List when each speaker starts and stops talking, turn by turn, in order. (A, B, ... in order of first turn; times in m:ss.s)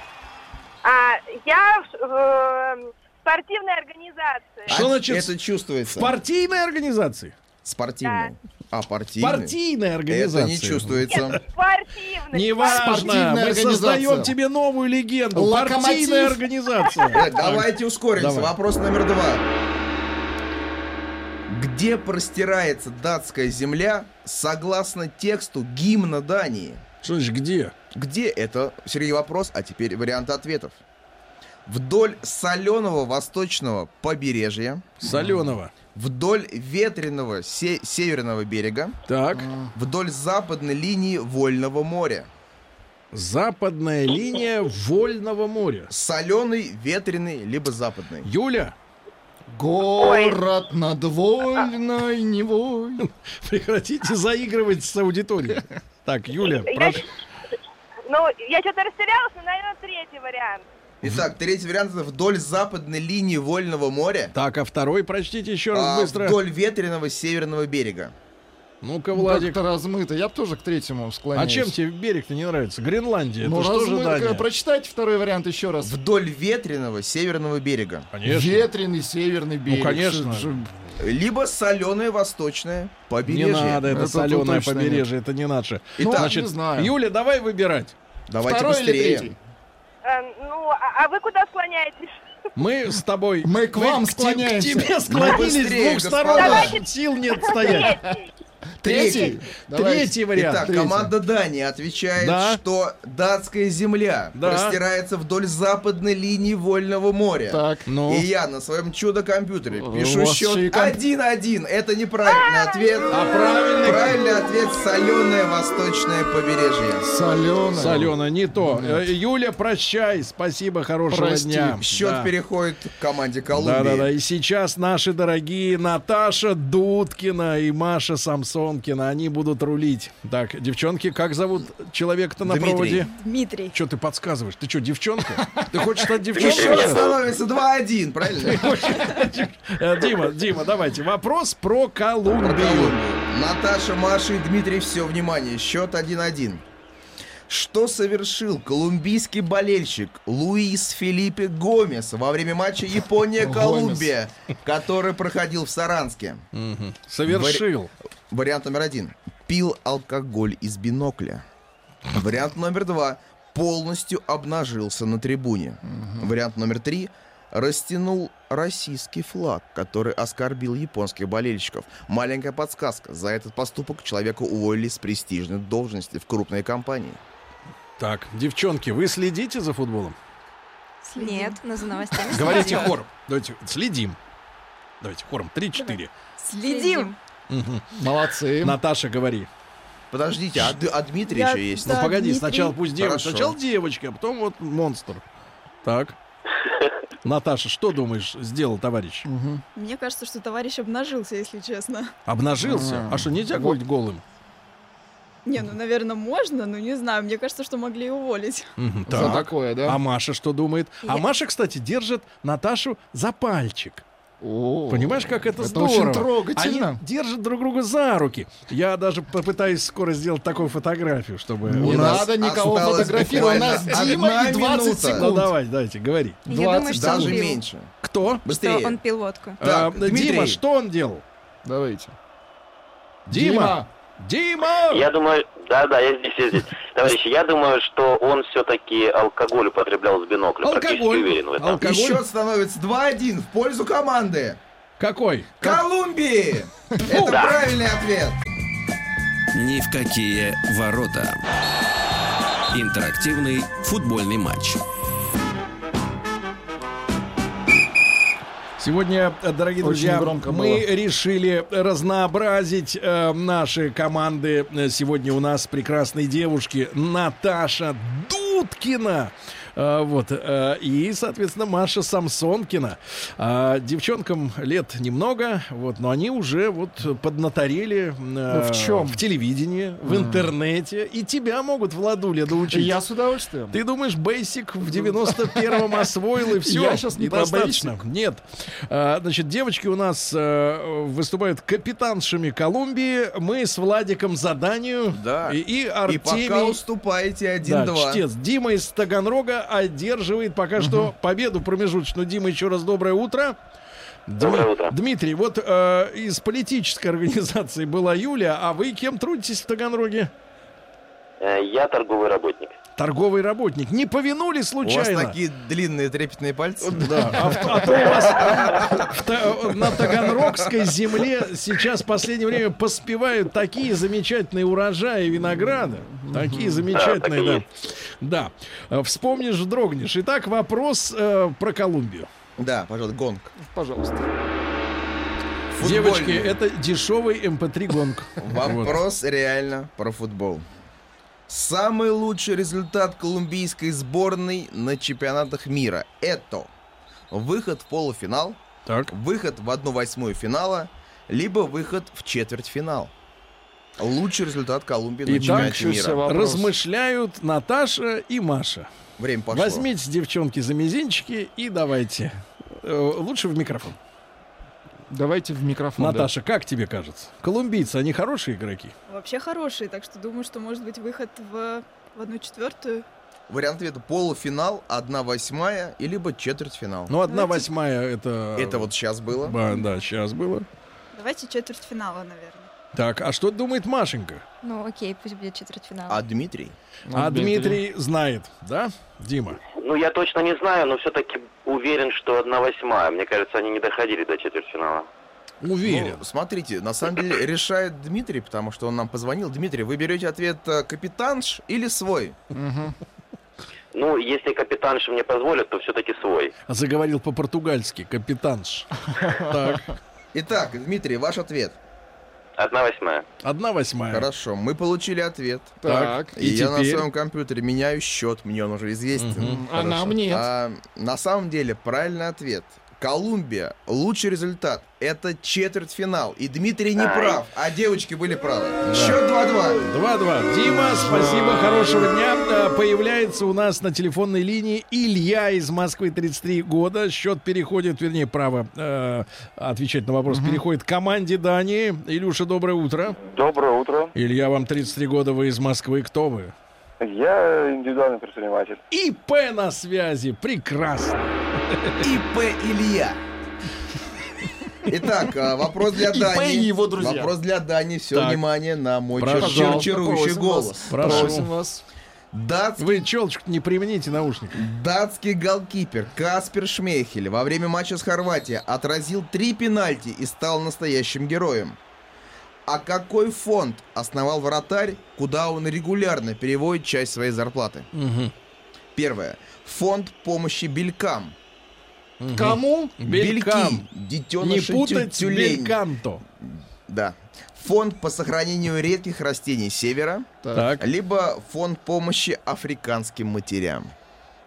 0:00.8-0:04.8 A
0:04.7-0:06.1 B
0:04.7-0:05.3 C
0:05.9-0:07.3 C
0:07.6-0:09.6 B
0:08.0-0:08.3 A
0:09.2-0:11.4 C
0:10.1-0:11.4 B
0:11.1-0:13.0 A
0:12.3-0:18.5 C
0:12.6-0:14.3 D
0:15.3-0:16.4 D
0:17.1-0:19.5 B
0:21.5-0:26.8 B
0:27.0-0:27.7 C
0:27.9-0:30.8 B
0:31.7-0:35.0 B
0:35.0-0:35.7 C
0:35.0-0:35.5 D
0:36.0-0:39.0 B
0:39.1-0:39.5 C
0:39.3-0:39.7 D
0:39.8-0:42.3 B
0:43.1-0:45.9 C
0:45.9-0:48.3 B
0:48.2-0:48.8 C
0:49.5-0:53.0 D
0:50.0-0:50.4 A
0:53.0-0:57.0 C
0:56.7-0:57.0 A
0:58.1-1:00.6 A
1:01.0-1:04.3 B
1:04.4-1:06.4 C
1:05.7-1:08.1 B
1:08.8-1:09.6 C
1:09.2-1:11.7 D
1:11.4-1:14.4 C
1:13.4-1:15.9 D
1:15.8-1:18.1 B
1:18.1-1:18.7 C
1:18.2-1:20.7 D
1:19.7-1:20.5 C
1:21.0-1:23.9 B
1:23.2-1:28.0 C
1:23.9-1:25.0 D
1:26.0-1:26.3 B
1:26.0-1:26.9 D
1:28.3-1:29.3 B
1:28.4-1:29.4 D
1:30.0-1:32.2 A
1:32.6-1:38.0 C
1:33.4-1:34.9 D
1:35.1-1:36.8 B
1:36.3-1:38.3 A
1:38.8-1:41.1 D
1:38.8-1:39.4 B
1:39.7-1:40.6 C
1:40.4-1:53.2 B
1:42.2-1:42.6 C
1:44.4-1:44.8 C
1:47.5-1:47.9 D
1:47.9-1:48.3 C
1:49.8-1:50.9 D
1:53.1-1:54.1 C
1:53.8-1:57.1 B
1:57.1-1:58.1 D
1:57.8-2:02.3 C
1:58.7-1:59.0 D
2:01.1-2:01.8 D
2:01.8-2:04.1 B
2:03.5-2:13.1 C
2:12.4-2:13.1 B
2:13.2-2:13.8 E
2:13.7-2:17.1 C
2:15.4-2:15.7 D
2:16.3-2:18.9 B
2:16.4-2:17.1 F
2:18.4-2:23.0 C
2:22.3-2:26.6 B
2:27.5-2:36.4 B
2:33.4-2:34.1 D
2:36.5-2:37.9 C
2:37.2-2:37.7 B
2:38.3-2:41.4 B
2:42.1-2:57.2 B
2:45.9-2:46.3 D
2:58.0-3:00.2 C
3:01.0-3:02.9 G
3:01.2-3:01.6 E
3:02.1-3:02.7 E
3:02.3-3:04.2 C
3:05.0-3:06.1 C
3:05.8-3:07.1 E
3:06.5-3:07.2 G
3:07.5-3:07.8 C
3:07.9-3:08.8 D
3:08.6-3:09.5 C
3:10.1-3:12.1 B
3:11.3-3:12.8 E
3:11.8-3:15.2 C
3:13.0-3:13.6 B
3:15.8-3:16.2 C
3:17.2-3:19.3 C
3:19.2-3:19.6 D
3:19.8-3:22.1 E
3:22.3-3:24.2 C
3:22.6-3:23.8 D
3:25.5-3:28.7 E
3:28.8-3:34.0 C
3:29.1-3:30.0 D
3:34.4-3:37.0 D
3:34.9-3:42.3 C
3:41.7-3:45.5 D
3:41.8-3:45.3 B
3:45.1-3:46.4 C
3:46.5-3:47.6 G
3:46.5-3:47.4 D
3:46.9-3:47.9 B
3:48.0-3:48.4 C
3:48.4-3:49.0 B
3:48.5-3:49.6 G
3:49.6-3:50.6 B
3:49.6-3:51.2 C
3:51.6-3:52.2 D
3:53.3-3:53.9 D
3:53.3-3:55.1 C
3:54.9-4:01.8 F
4:00.6-4:02.2 C
4:01.8-4:04.6 B
4:05.0-4:05.8 C
4:05.6-4:08.4 B
4:07.1-4:07.4 C
4:07.3-4:07.6 F
4:09.5-4:11.4 H
4:12.7-4:14.8 H
4:18.8-4:43.0 C
4:19.8-4:20.8 D
4:38.5-4:39.2 D
4:40.0-4:40.5 D
4:42.7-4:43.8 D
4:43.7-4:56.8 C
4:44.9-4:45.8 D
4:46.6-4:48.0 D
4:55.1-4:58.2 B
4:57.6-5:03.6 C
5:00.8-5:01.1 D
5:04.3-5:10.3 C
5:04.4-5:05.0 F
5:11.4-5:12.8 F
5:13.0-5:15.4 C
5:14.8-5:19.1 B
5:17.0-5:27.6 C
5:19.9-5:20.5 B
5:26.1-5:26.9 D
5:26.9-5:27.6 F
5:28.2-5:32.3 C
5:32.6-5:33.5 B
5:33.6-5:34.3 D
5:35.7-5:36.6 B
5:35.8-5:39.0 C
5:38.4-5:40.6 B
5:41.5-5:46.7 B
5:47.3-5:53.1 B
5:48.9-5:49.1 C
5:54.0-5:56.2 B
5:55.3-5:58.9 C
5:55.3-5:56.7 D
5:59.2-5:59.9 B
5:59.5-6:04.0 C
6:05.1-6:06.3 D
6:06.0-6:08.9 C
6:09.1-6:13.0 E
6:13.5-6:17.1 B
6:17.1-6:18.9 C
6:17.3-6:17.7 E
6:18.6-6:19.6 B
6:19.4-6:20.7 C
6:19.7-6:20.0 E
6:21.1-6:22.7 E
6:22.9-6:24.4 C
6:24.6-6:26.2 G
6:26.1-6:26.8 B
6:27.1-6:27.8 D
6:27.1-6:29.6 C
6:29.7-6:35.1 F
6:35.6-6:36.2 C
6:35.8-6:42.4 B
6:42.5-6:43.0 D
6:43.9-6:46.5 F
6:46.7-6:49.9 C
6:49.2-6:49.5 D
6:50.3-6:51.8 B
6:52.6-6:53.2 F
6:53.4-6:54.3 C
6:54.1-6:55.8 B
6:55.8-6:56.4 D
6:55.8-6:57.1 C
6:56.4-7:09.9 B
6:59.2-6:59.6 C
6:59.4-7:00.5 D
7:07.0-7:07.4 F
7:08.9-7:09.2 C
7:09.8-7:23.2 C
7:10.7-7:11.8 D
7:20.3-7:20.6 D
7:23.2-7:24.1 I
7:24.2-7:26.5 C
7:27.0-7:28.8 I
7:28.9-7:32.1 C
7:32.0-7:33.2 B
7:34.9-7:41.4 B
7:36.0-7:37.3 D
7:38.1-7:38.4 C
7:39.2-7:39.9 C
7:39.3-7:41.8 D
7:40.9-7:41.5 C
7:42.3-7:43.0 B
7:42.8-7:44.6 C
7:44.5-7:51.8 B
7:52.7-7:57.9 B
7:57.9-7:58.3 C
7:59.0-8:01.4 B
8:02.2-8:03.9 C
8:02.3-8:02.9 D
8:03.1-8:05.8 B
8:04.4-8:06.2 C
8:06.4-8:10.3 B
8:10.4-8:10.7 D
8:10.5-8:10.9 C
8:10.8-8:13.9 B